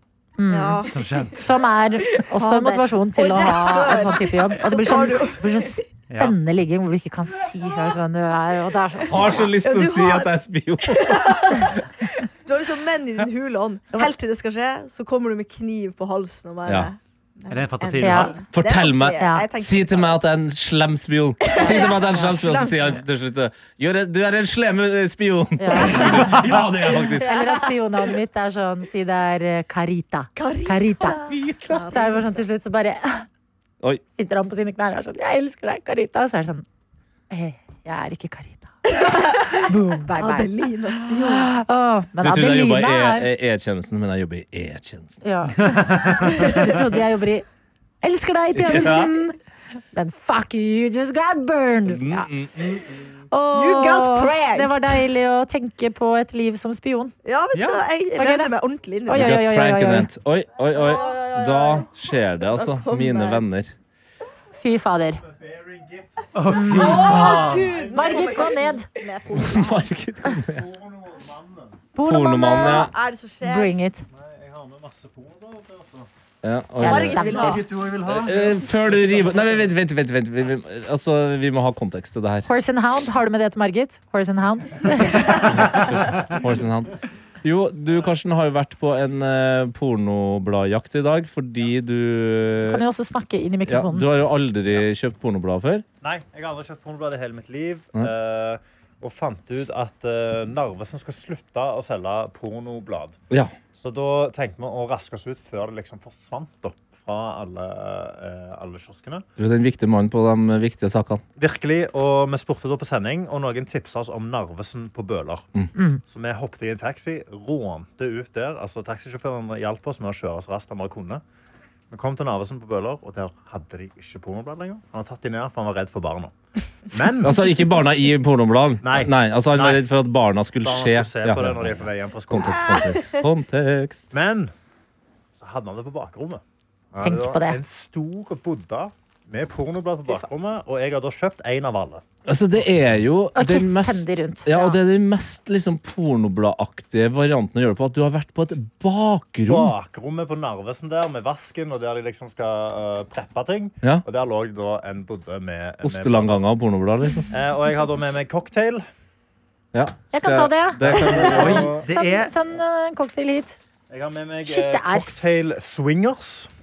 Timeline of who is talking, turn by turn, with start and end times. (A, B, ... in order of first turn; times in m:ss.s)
0:00.4-0:00.8 A
0:00.5-0:01.1 B
0:00.9-0:01.5 C
0:01.4-0:09.5 A
0:02.3-0:05.7 B
0:06.1-0:06.4 C
0:09.1-0:11.8 D
0:09.6-0:10.4 B
0:10.9-0:20.2 B
0:16.6-0:16.9 D
0:17.5-0:18.4 C
0:18.0-0:18.3 A
0:18.5-0:27.4 D
0:19.2-0:19.4 A
0:21.4-0:22.8 B
0:21.8-0:22.7 A
0:25.6-0:26.4 A
0:25.8-0:27.5 B
0:27.2-0:31.2 A
0:30.4-0:32.2 B
0:31.3-0:31.9 D
0:31.9-0:33.2 A
0:34.1-0:36.6 A
0:37.3-0:43.3 A
0:38.9-0:41.5 B
0:42.2-0:45.2 D
0:45.2-0:47.4 A
0:45.6-0:46.3 C
0:48.0-0:49.4 A
0:48.5-0:49.1 D
0:49.9-0:52.3 A
0:51.8-0:53.0 D
0:53.3-0:57.1 A
0:53.5-0:55.0 B
0:57.2-0:59.3 B
0:57.5-0:57.8 C
0:58.2-0:58.5 A
0:59.0-1:00.1 A
0:59.1-1:03.7 D
1:00.7-1:01.9 B
1:02.4-1:03.4 B
1:04.6-1:05.2 A
1:05.2-1:06.3 E
1:06.3-1:07.7 C
1:06.5-1:08.9 A
1:06.7-1:09.9 B
1:07.0-1:08.5 E
1:09.3-1:10.7 D
1:10.4-1:11.9 E
1:11.9-1:12.9 A
1:12.0-1:12.9 D
1:12.4-1:13.7 B
1:13.4-1:14.0 A
1:14.1-1:16.1 E
1:16.4-1:17.4 D
1:16.8-1:17.6 A
1:16.8-1:17.7 B
1:17.3-1:19.5 E
1:18.0-1:22.5 D
1:22.4-1:25.5 A
1:25.4-1:32.8 D
1:32.7-1:34.1 A
1:33.7-1:35.8 D
1:36.0-1:43.2 E
1:43.7-1:49.2 E
1:49.4-1:51.2 D
1:51.4-1:55.5 E
1:55.7-1:56.0 A
1:56.0-2:01.2 E
2:01.9-2:06.3 E
2:06.9-2:07.4 E
2:07.2-2:14.1 D
2:08.8-2:09.8 E
2:10.6-2:12.9 E
2:12.4-2:13.2 B
2:14.1-2:14.5 E
2:15.4-2:16.4 E
2:16.9-2:22.0 E
2:17.0-2:17.6 A
2:22.2-2:29.7 D
2:23.3-2:24.8 A
2:29.5-2:36.4 E
2:35.8-2:37.3 D
2:37.3-2:38.8 E
2:39.7-2:41.7 D
2:40.1-2:43.6 A
2:40.8-2:41.9 E
2:41.2-2:42.3 C
2:43.9-2:46.5 E
2:44.4-2:45.2 A